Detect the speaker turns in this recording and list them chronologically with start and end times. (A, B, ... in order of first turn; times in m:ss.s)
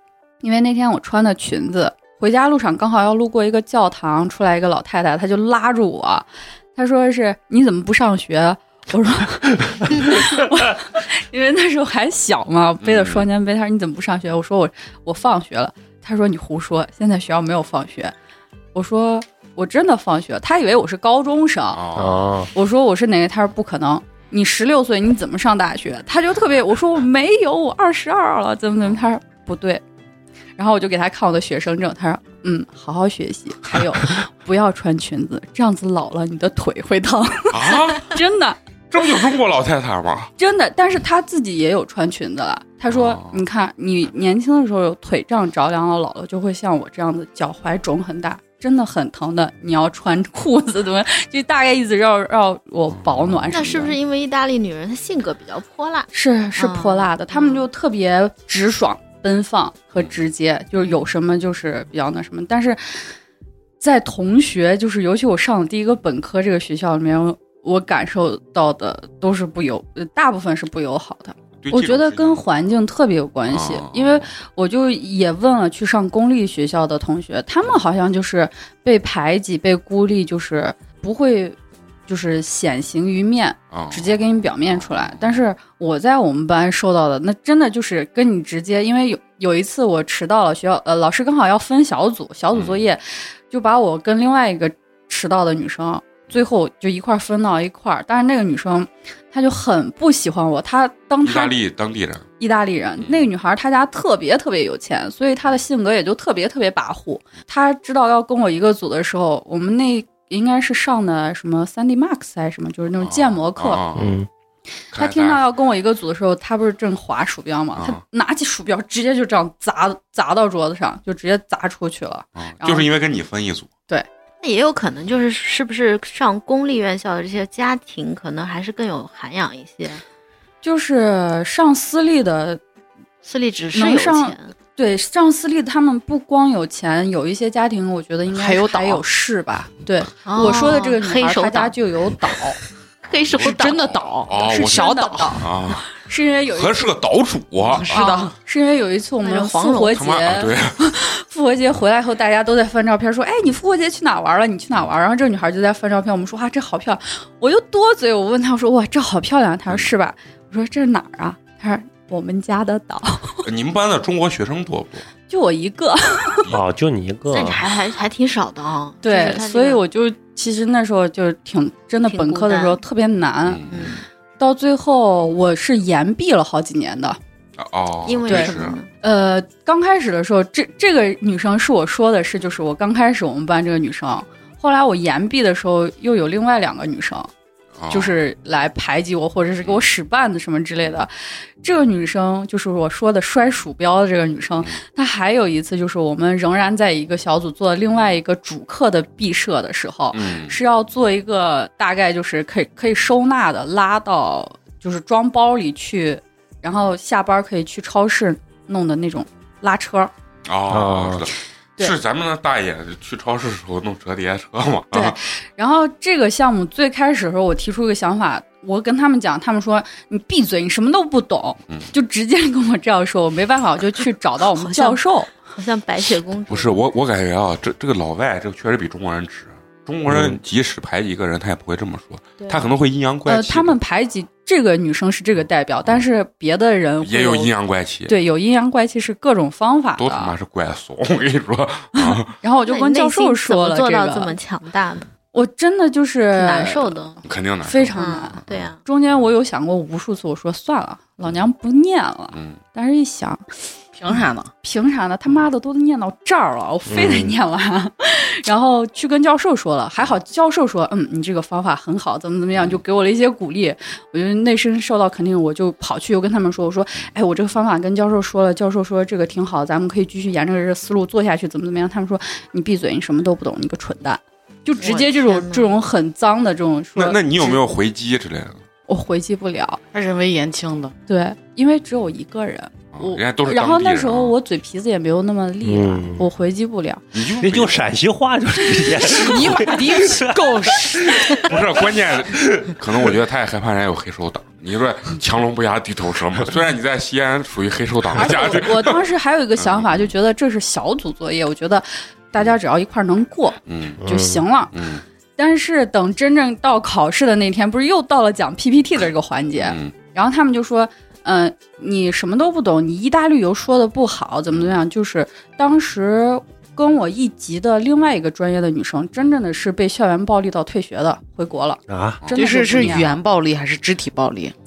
0:00.4-0:18.1 A
0:12.8-0:13.2 B
0:18.7-0:21.8 A
0:21.7-0:22.3 B
0:21.9-0:22.5 C
0:22.5-0:29.8 A
0:30.6-0:38.6 A
0:37.5-0:38.2 B
0:38.9-0:40.3 B
0:40.4-0:54.0 A
0:42.9-0:43.4 B
0:53.0-0:53.4 B
0:53.5-0:57.7 D
0:56.1-1:03.0 A
1:03.8-1:41.6 A
1:11.6-1:12.4 B
1:13.5-1:14.3 B
1:23.7-1:24.2 B
1:24.7-1:25.4 B
1:32.5-1:32.9 B
1:41.2-1:42.2 B
1:42.4-1:53.8 A
1:53.0-1:54.2 B
1:54.0-1:54.3 C
1:54.9-1:55.4 B
1:54.9-2:02.9 A
2:02.4-2:03.7 B
2:04.4-2:10.0 D
2:10.6-2:12.6 A
2:13.2-2:14.5 D
2:13.7-2:22.6 A
2:18.3-2:19.0 E
2:20.2-2:21.7 D
2:23.0-2:25.9 B
2:23.0-2:23.8 D
2:23.4-2:25.4 E
2:24.3-2:26.9 A
2:26.5-2:28.0 B
2:27.7-2:28.4 E
2:27.9-2:43.4 A
2:29.2-2:30.0 D
2:30.0-2:30.8 B
2:43.4-2:45.1 B
2:45.3-2:46.4 A
2:46.5-2:47.6 C
2:47.3-2:49.8 D
2:49.0-2:53.6 A
2:52.1-2:52.8 D
2:53.4-2:53.9 B
2:53.7-2:54.0 D
2:54.4-2:57.2 A
2:57.6-2:58.8 B
2:58.0-2:58.9 D
2:58.2-3:07.3 A
3:07.8-3:08.2 B
3:07.9-3:11.1 A
3:11.6-3:30.1 A
3:20.1-3:20.6 B
3:30.4-3:35.2 B
3:30.7-3:31.3 C
3:34.9-3:45.3 A
3:44.5-3:46.8 D
3:46.5-3:53.8 B
3:50.1-3:50.4 C
3:53.2-3:57.5 A
3:57.0-3:58.2 B
3:58.1-4:00.3 A
4:00.0-4:02.3 B
4:02.0-4:04.3 A
4:02.6-4:05.1 D
4:05.3-4:07.1 A
4:06.3-4:07.2 D
4:07.2-4:08.7 B
4:07.6-4:13.4 A
4:07.9-4:08.8 D
4:12.3-4:12.6 B
4:13.9-4:14.5 E
4:14.6-4:37.6 A
4:16.9-4:17.3 C
4:34.8-4:35.7 D
4:37.0-4:38.6 B
4:38.9-4:39.8 A
4:39.9-4:40.9 E
4:41.1-4:47.0 A
4:42.9-4:44.4 B
4:45.6-4:46.2 C
4:47.1-4:47.8 B
4:47.4-4:52.8 C
4:49.2-4:51.5 E
4:51.4-4:59.1 B
4:58.2-5:04.7 A
4:59.6-5:00.1 B
5:03.7-5:04.0 B
5:04.0-5:04.4 C
5:04.7-5:05.0 B
5:05.4-5:23.2 A
5:09.6-5:09.9 B
5:21.9-5:22.2 C
5:22.2-5:22.9 B
5:22.3-5:24.5 E